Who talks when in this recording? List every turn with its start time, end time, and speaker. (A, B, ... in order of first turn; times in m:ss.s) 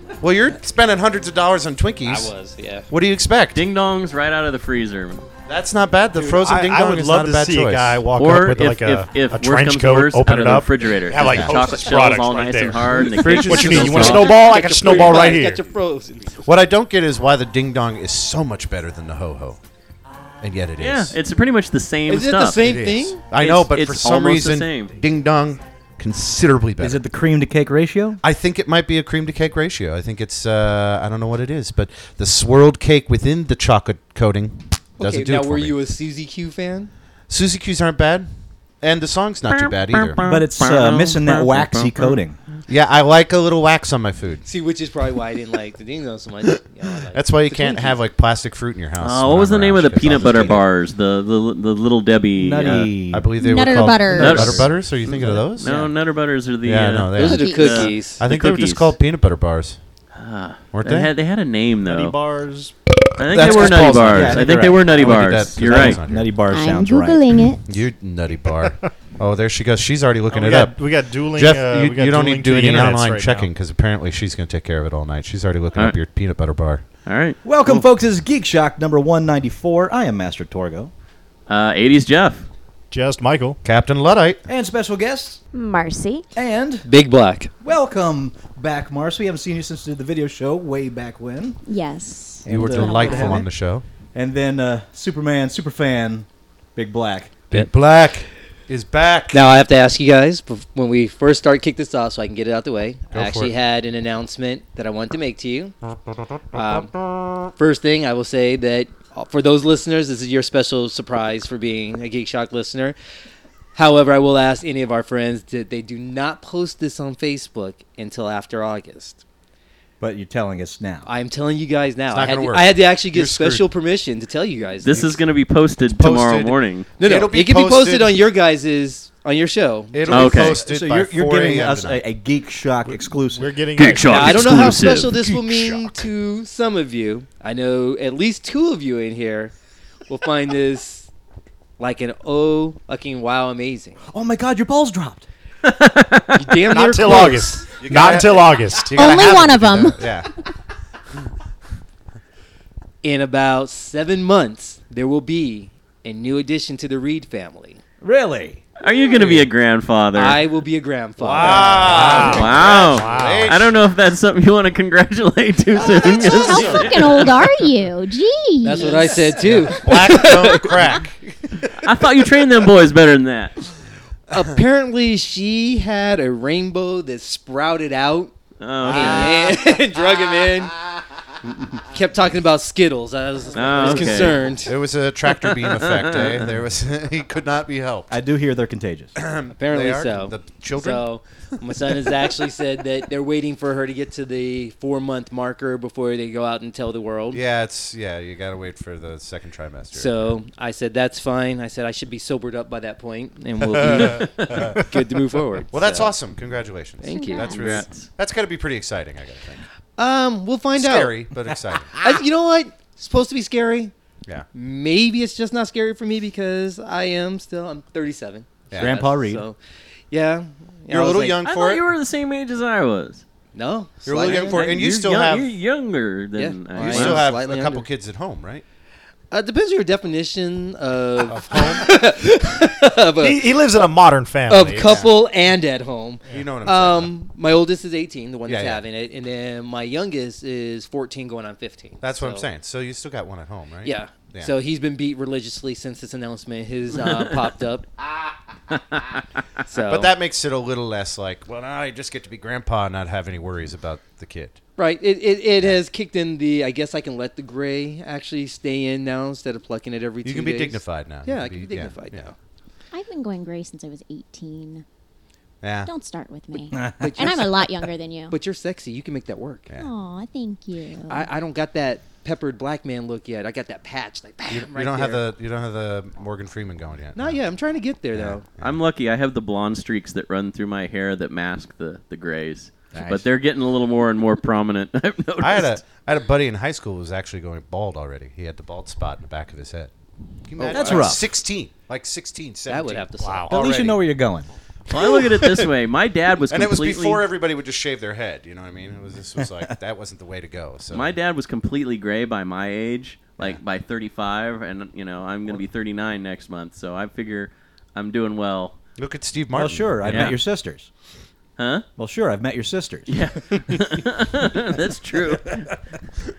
0:00.2-0:02.3 A
0:02.0-0:02.9 B
0:02.9-0:03.7 A
0:03.5-0:05.2 C
0:05.5-0:08.1 A
0:06.4-0:15.6 D
0:08.2-0:14.4 C
0:11.2-0:11.7 A
0:13.1-0:16.5 B
0:13.3-0:14.1 A
0:16.4-0:19.6 A
0:20.4-0:21.2 A
0:20.8-0:22.7 C
0:22.1-0:23.2 B
0:22.6-0:27.0 A
0:23.3-0:24.9 C
0:26.8-0:28.2 E
0:28.2-0:35.8 A
0:35.0-0:36.9 B
0:37.3-0:40.2 A
0:39.5-0:42.2 C
0:40.2-0:42.4 E
0:42.7-0:44.5 A
0:44.4-0:48.0 B
0:47.1-0:50.7 A
0:49.0-0:52.9 C
0:50.0-0:50.6 E
0:52.4-0:55.9 E
0:52.7-0:55.8 A
0:53.4-0:54.6 F
0:54.2-0:59.0 C
0:56.6-0:59.8 A
0:57.2-0:58.2 B
0:57.2-0:57.9 F
1:00.2-1:02.2 C
1:00.7-1:01.1 A
1:01.8-1:02.8 D
1:03.2-1:06.0 C
1:03.3-1:06.3 A
1:03.3-1:07.5 E
1:06.5-1:07.6 F
1:07.6-1:16.8 A
1:10.3-1:13.5 D
1:17.0-1:17.9 C
1:17.4-1:20.9 E
1:21.5-1:22.5 C
1:22.9-1:23.6 D
1:23.6-1:24.4 A
1:24.5-1:25.4 E
1:25.5-1:26.3 F
1:26.4-1:26.9 E
1:26.8-1:27.5 B
1:27.6-1:31.6 E
1:31.7-1:33.5 F
1:32.4-1:33.5 E
1:32.5-1:33.8 A
1:34.1-1:37.6 E
1:37.5-1:39.4 A
1:39.3-1:45.8 B
1:43.1-1:43.5 A
1:46.5-1:47.0 B
1:46.5-1:47.5 A
1:47.6-1:53.0 B
1:53.8-1:59.2 B
2:00.0-2:01.1 E
2:01.0-2:05.1 B
2:02.1-2:03.7 A
2:04.8-2:06.9 C
2:04.9-2:05.2 A
2:05.8-2:08.1 A
2:07.0-2:10.5 B
2:09.9-2:12.0 A
2:10.1-2:10.6 C
2:10.2-2:13.6 E
2:12.8-2:15.8 D
2:13.8-2:15.1 C
2:14.0-2:19.5 B
2:15.4-2:15.8 A
2:20.1-2:21.1 B
2:21.8-2:24.0 B
2:24.1-2:25.3 E
2:25.6-2:26.6 C
2:26.3-2:27.8 B
2:26.7-2:29.5 D
2:27.8-2:30.3 A
2:28.9-2:30.0 F
2:33.0-2:37.8 B
2:38.0-2:38.6 E
2:38.8-2:40.4 C
2:40.1-2:42.3 B
2:41.2-2:43.8 A
2:41.5-2:42.7 E
2:41.6-2:43.5 D
2:42.1-2:47.7 C
2:46.1-2:49.4 F
2:46.5-2:46.8 A
2:48.6-2:51.0 B
2:49.4-2:51.7 A
2:51.7-2:53.6 C
2:54.3-3:00.9 B
2:58.6-2:59.5 C
2:58.9-2:59.3 A
3:01.9-3:04.8 B
3:03.5-3:04.4 C
3:03.8-3:08.1 A
3:05.4-3:06.5 C
3:08.1-3:09.2 E
3:09.2-3:11.1 A
3:09.5-3:17.4 B
3:11.7-3:12.2 A
3:17.3-3:20.4 A
3:19.9-3:26.1 B
3:24.0-3:24.3 C
3:25.7-3:29.6 A
3:27.0-3:27.8 B
3:27.1-3:27.6 F
3:27.5-3:28.1 C
3:30.0-3:31.2 B
3:30.8-3:31.9 A
3:32.0-3:33.9 B
3:34.5-3:39.6 B
3:38.7-3:39.0 A
3:38.8-3:39.5 E
3:40.1-3:41.4 B
3:40.9-3:41.9 A
3:41.4-3:43.2 C
3:43.5-3:44.7 B
3:44.0-3:45.5 A
3:44.3-3:47.3 C
3:46.4-3:47.8 B
3:46.8-3:48.6 A
3:49.3-3:53.5 B
3:51.3-3:51.9 A
3:53.2-3:55.0 D
3:54.5-4:02.4 B
3:54.8-3:55.1 A
3:56.3-3:57.1 A
3:58.5-3:58.8 A
4:02.0-4:04.5 A
4:03.8-4:07.9 B
4:09.7-4:10.1 B
4:09.9-4:14.6 A
4:14.8-4:22.3 B
4:20.2-4:22.3 A
4:22.9-4:24.8 F
4:25.6-4:25.9 A
4:25.8-4:28.4 F
4:26.7-4:27.5 E
4:27.0-4:27.5 B
4:28.3-4:29.7 B
4:29.8-4:31.3 F
4:31.1-4:35.3 B
4:34.5-4:37.4 A
4:37.2-4:38.4 B
4:38.2-4:38.8 A
4:38.6-4:45.8 C
4:42.9-4:43.2 E
4:45.4-4:49.9 A
4:50.5-4:53.1 A
4:50.6-4:51.1 C
4:50.6-4:51.2 E
4:52.7-4:53.5 B
4:53.2-4:53.9 D
4:53.5-4:54.5 E
4:54.9-4:57.2 C
4:55.0-4:55.6 D
4:56.5-5:01.1 A
5:00.9-5:08.8 C
5:09.0-5:10.4 A
5:09.6-5:10.9 E
5:10.0-5:10.4 C
5:11.6-5:11.8 C
5:12.0-5:13.2 E
5:13.1-5:15.8 C